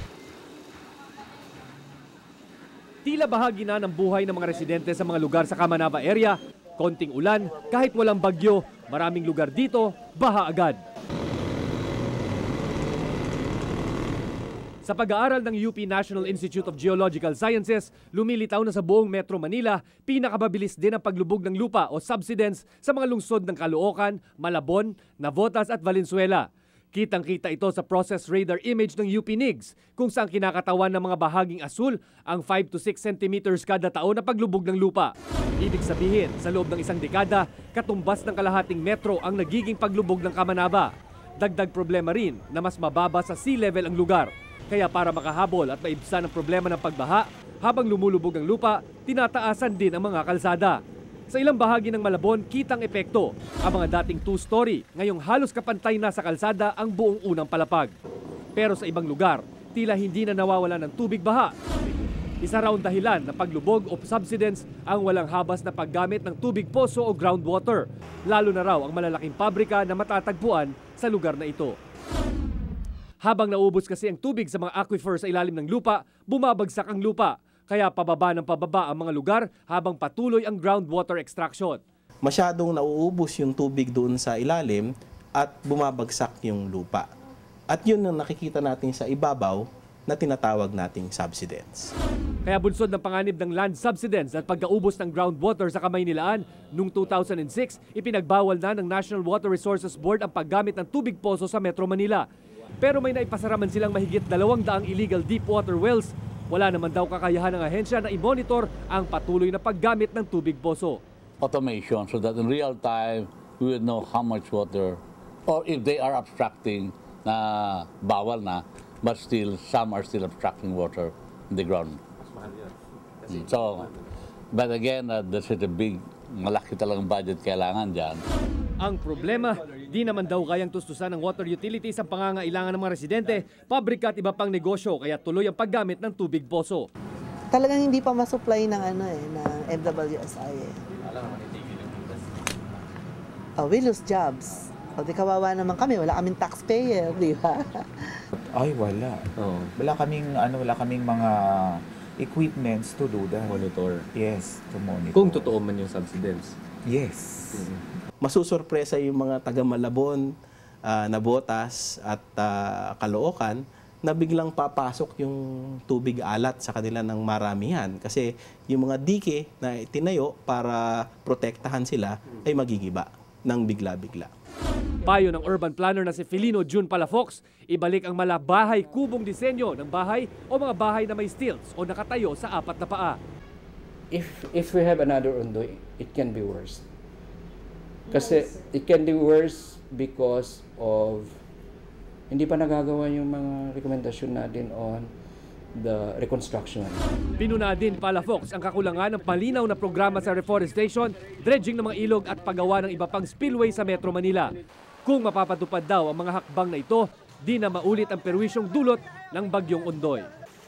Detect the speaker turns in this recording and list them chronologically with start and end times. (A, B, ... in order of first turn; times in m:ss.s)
0:03.0-0:10.8 A
0:14.8-0:50.8 A
0:51.3-0:57.9 A
0:58.6-1:01.5 A
1:02.4-1:11.8 A
1:13.2-1:21.8 A
1:22.2-1:27.1 B
1:27.7-1:31.9 B
1:32.5-1:42.2 A
1:42.8-1:51.0 A
1:51.4-2:02.0 C
2:03.3-2:03.9 C
2:04.5-2:08.2 C
2:08.8-2:16.9 A
2:17.5-2:20.8 D
2:21.1-2:22.2 E
2:23.6-2:28.2 D
2:28.4-2:33.6 F
2:29.4-2:29.7 E
2:33.5-2:34.0 E
2:34.1-2:35.5 F
2:35.1-2:36.6 E
2:36.9-2:37.7 F
2:38.2-2:40.3 B
2:40.8-2:54.3 B
2:55.0-3:03.2 A
3:04.1-3:06.8 G
3:08.1-3:11.4 G
3:12.3-3:15.1 G
3:15.7-3:17.0 G
3:17.4-3:24.5 A
3:25.0-3:30.3 A